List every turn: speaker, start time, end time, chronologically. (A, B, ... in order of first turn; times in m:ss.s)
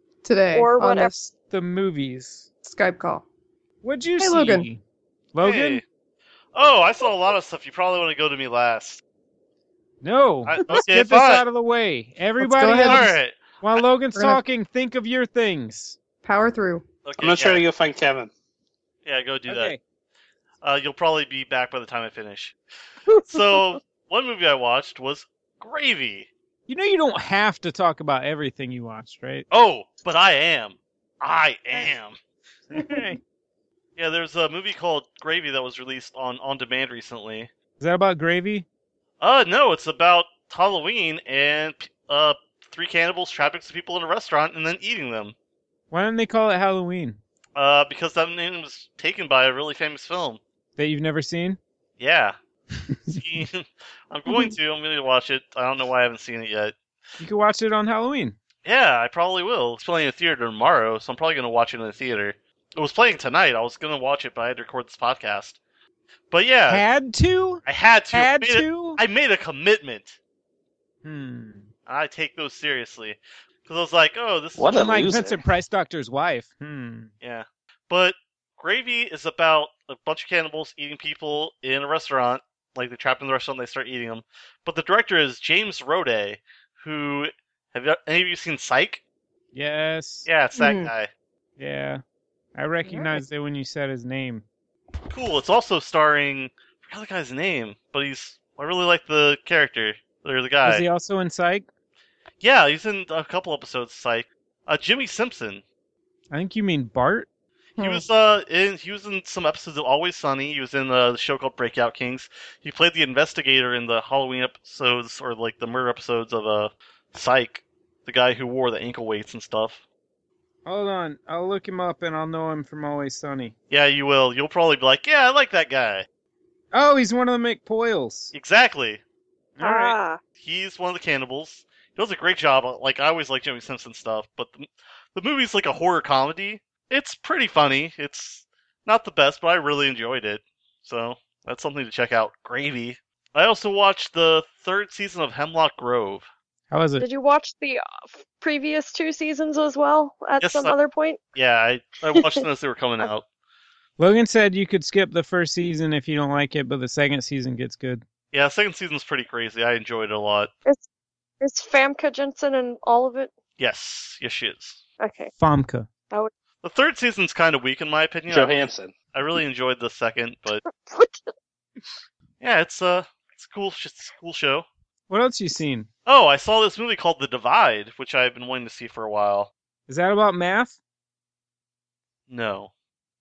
0:00.2-0:01.3 A
0:00.5-0:01.1 B
0:01.5-0:02.5 C
0:02.6-0:03.2 A
0:03.8-0:04.8 C
0:04.2-0:04.7 A
0:05.3-0:05.8 C
0:05.4-0:05.8 D
0:06.5-0:09.0 D
0:10.0-0:16.0 C
0:10.4-0:11.4 D
0:12.4-0:13.1 A
0:12.8-0:13.8 D
0:14.1-0:14.4 A
0:16.2-0:16.8 A
0:17.0-0:17.6 D
0:17.2-0:18.3 E
0:19.0-0:19.7 D
0:19.5-0:19.8 C
0:20.6-0:22.6 D
0:23.1-0:23.7 B
0:23.2-0:26.3 D
0:26.7-0:29.4 C
0:29.5-0:32.2 D
0:32.7-0:33.2 C
0:32.8-0:33.1 A
0:34.0-0:37.5 D
0:37.8-0:38.6 C
0:39.2-0:45.3 D
0:45.9-0:47.2 C
0:47.6-0:50.4 D
0:50.8-0:51.6 C
0:52.0-0:52.4 D
0:52.7-0:53.2 C
0:53.1-0:56.7 D
0:57.2-0:58.4 C
0:58.6-1:05.6 D
1:06.3-1:06.8 D
1:06.7-1:09.0 C
1:07.6-1:10.2 D
1:11.0-1:11.7 C
1:11.8-1:14.9 D
1:14.6-1:15.4 E
1:14.7-1:17.1 C
1:17.2-1:29.0 D
1:29.5-1:30.3 C
1:30.2-1:31.1 D
1:30.6-1:30.9 A
1:31.6-1:32.0 C
1:32.5-1:34.4 C
1:32.8-1:33.2 A
1:35.1-1:40.8 D
1:40.6-1:41.7 C
1:42.4-1:45.6 D
1:46.3-1:47.3 C
1:47.8-1:48.0 A
1:47.8-1:59.8 D
2:00.6-2:03.5 C
2:03.7-2:06.0 D
2:06.7-2:08.3 C
2:08.3-2:09.0 D
2:09.6-2:10.0 C
2:09.6-2:10.2 B
2:10.4-2:26.3 D
2:26.7-2:27.0 C
2:27.0-2:31.2 B
2:30.4-2:30.7 D
2:31.3-2:33.2 D
2:32.1-2:32.4 B
2:34.0-2:38.0 C
2:38.3-2:40.5 D
2:41.4-2:43.3 B
2:43.6-2:44.8 D
2:45.0-2:45.3 B
2:45.4-2:45.9 C
2:46.6-2:48.6 D
2:48.3-2:48.9 E
2:49.1-2:50.6 D
2:50.7-2:51.3 B
2:52.4-2:54.6 D
2:55.1-2:55.9 C
2:56.0-2:59.5 D
2:59.9-3:00.8 C
3:02.3-3:02.7 D